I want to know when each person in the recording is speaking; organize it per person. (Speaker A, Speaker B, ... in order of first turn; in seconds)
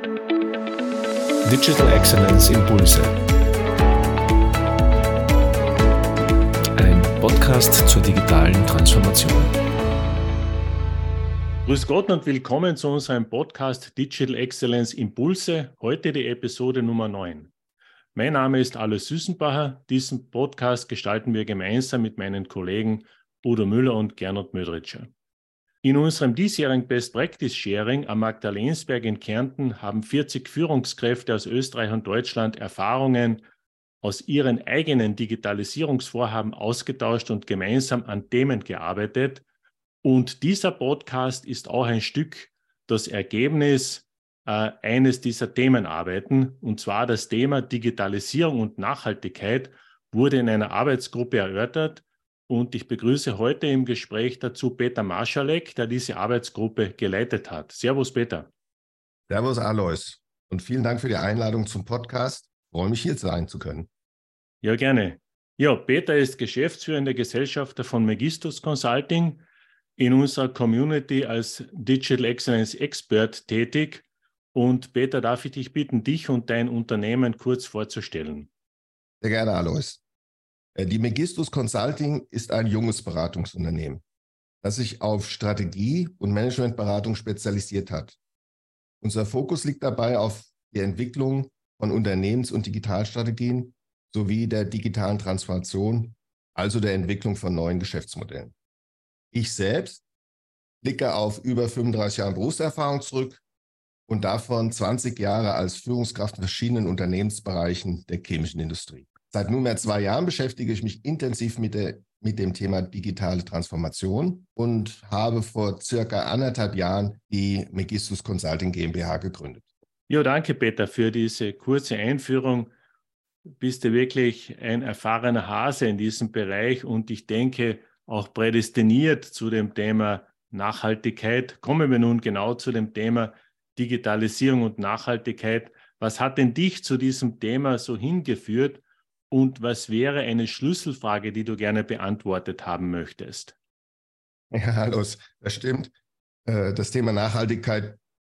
Speaker A: 1.4-3.1, 6.8-9.5
Speaker B: 11.6-17.5, 18.1-25.1, 25.8-33.4, 34.0-39.4, 40.0-58.5, 64.6-69.4, 70.0-78.5, 120.1-122.7, 123.6-143.5
Speaker C: 59.3-63.9, 79.2-80.0, 80.8-84.0, 84.6-88.2, 89.0-98.5, 99.3-100.0, 100.8-103.4, 104.1-119.6, 144.5-145.9, 146.4-148.0